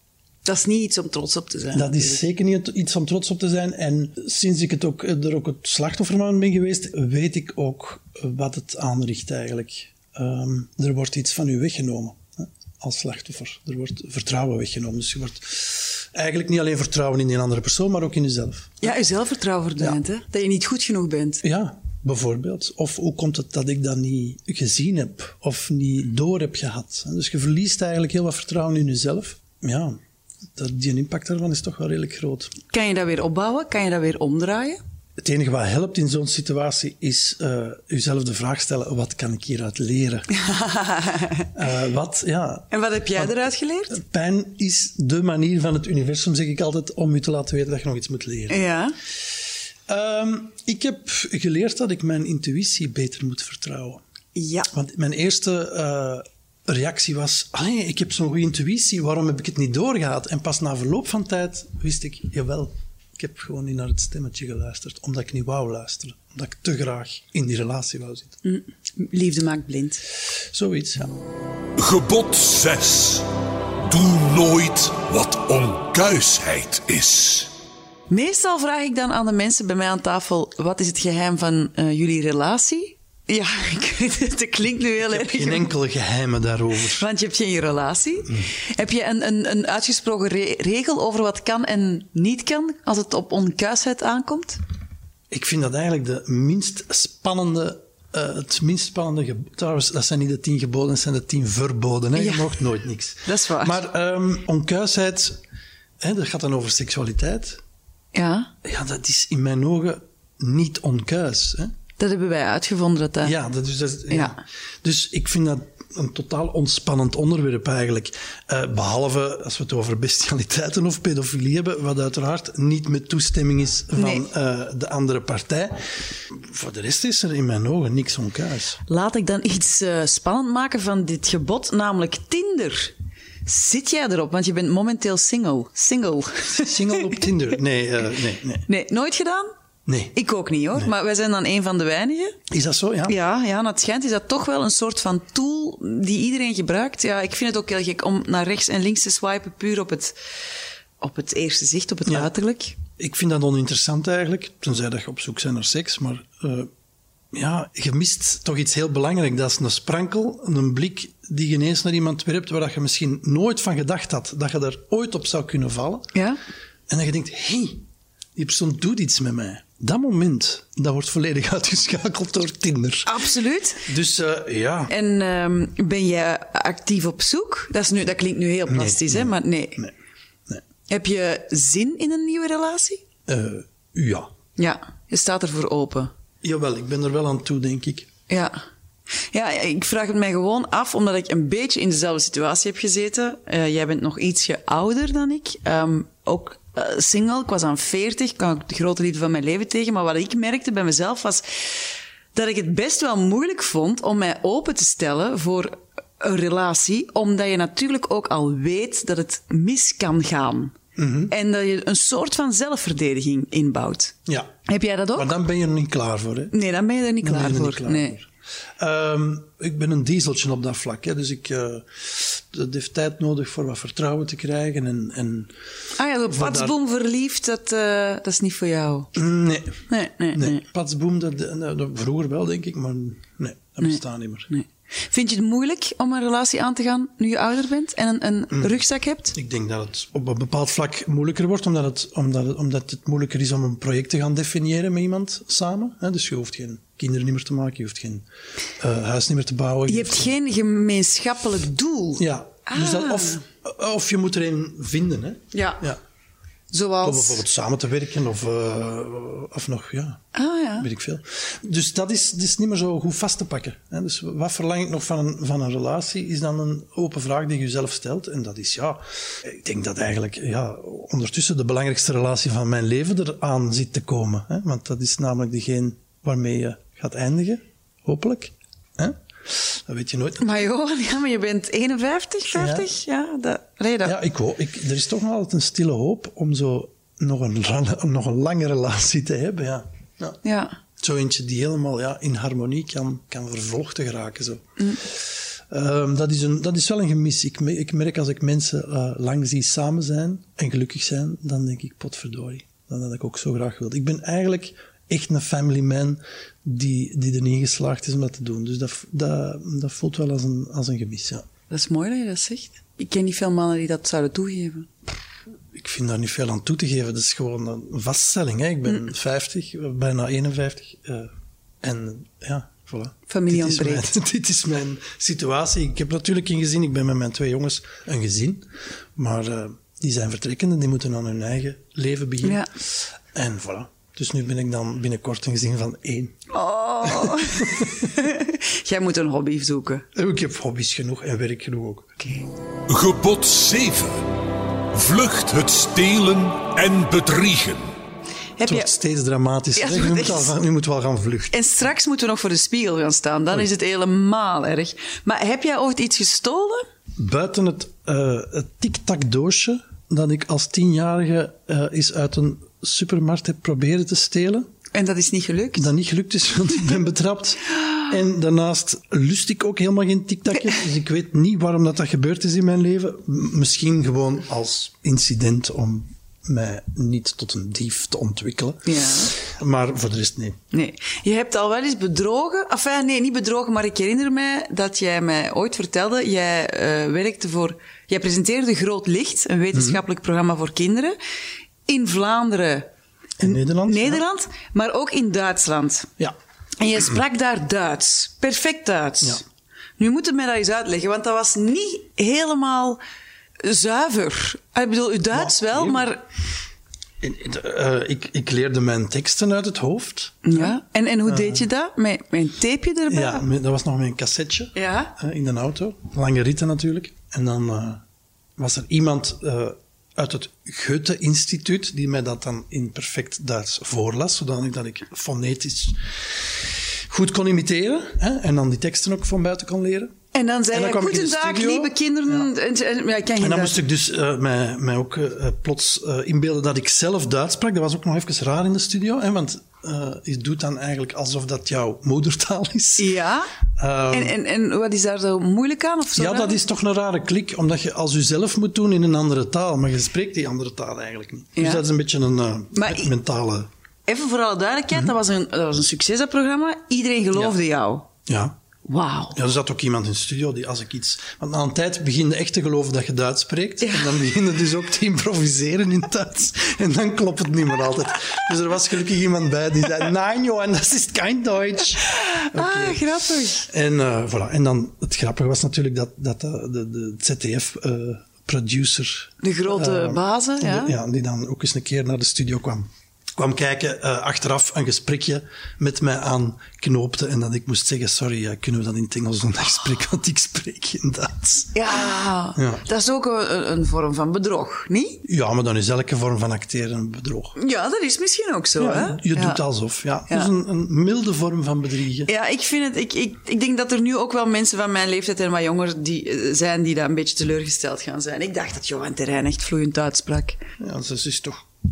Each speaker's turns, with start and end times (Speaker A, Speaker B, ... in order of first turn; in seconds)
Speaker A: 0.5-2.2, 18.8-21.4, 32.7-34.8, 40.3-41.5, 42.7-44.0, 48.5-49.0, 54.4-54.7, 68.4-70.0, 78.1-85.7, 87.0-94.6, 102.2-102.5, 103.2-103.8, 108.1-108.5, 112.0-113.3, 114.1-114.4, 124.0-124.3, 128.9-132.9, 133.4-137.2, 138.7-139.5, 140.2-142.4, 143.1-150.2, 151.0-152.8, 166.1-166.4, 173.1-173.9, 174.9-179.8, 180.9-183.0, 184.6-186.1, 188.3-188.6, 189.3-201.8, 202.3-210.8, 211.3-214.2, 214.7-215.3, 216.5-218.2, 226.0-229.1, 229.9-230.6, 233.8-239.3, 249.9-253.4, 255.5-255.8, 256.7-257.4, 260.3-260.9, 280.4-284.2, 290.4-290.8, 311.7-314.9, 323.3-324.1, 332.4-332.7, 336.5-340.1, 342.2-342.5, 348.6-348.9, 349.8-350.5, 351.5-356.8, 364.9-365.9, 378.9-379.3, 380.7-391.2, 391.9-392.9, 393.4-396.1, 396.8-399.4, 400.0-403.0, 403.6-406.3, 410.4-413.4, 414.8-415.1, 430.3-433.8, 443.0-443.5, 444.1-446.6, 451.6-451.8, 452.7-453.1, 454.1-458.1, 458.9-459.4, 463.8-464.1, 472.0-473.7, 479.4-480.9, 491.7-495.2, 497.6-499.6, 502.3-510.6
Speaker B: 1.7-18.9, 21.4-30.0, 30.6-32.5, 35.2-40.3, 41.5-48.6, 49.9-54.0, 54.7-68.4, 70.5-71.2, 85.1-87.0, 95.3-105.4, 106.0-107.6, 108.6-111.7, 113.2-128.8, 136.6-138.7, 139.9-140.2, 142.5-143.2, 153.0-156.7, 157.3-166.1, 166.9-167.8, 168.4-173.2, 173.8-174.9, 178.7-179.9, 183.3-184.3, 186.4-188.1, 211.0-211.3, 214.3-214.5, 215.1-216.6, 217.2-225.5, 226.3-226.8, 229.2-234.5, 238.5-238.8, 239.3-248.3, 248.8-250.3, 252.2-256.0, 257.0-260.2, 260.8-280.5, 282.5-282.9, 284.0-290.4, 291.0-311.5, 315.7-321.3, 321.8-336.4, 337.1-338.1, 340.1-342.1, 348.6-351.5, 357.2-364.7, 365.8-380.6, 389.7-390.0, 393.4-394.2, 405.3-406.1, 407.2-411.7, 413.1-418.0, 418.6-430.1, 430.7-432.5, 433.4-443.1, 443.8-444.4, 446.2-453.7, 458.3-458.6, 459.3-473.1, 473.6-491.8, 492.6-492.8, 495.2-497.6, 498.8-502.3, 510.8-511.6
Speaker C: 71.8-73.3, 73.9-77.5, 342.9-344.2, 344.9-347.9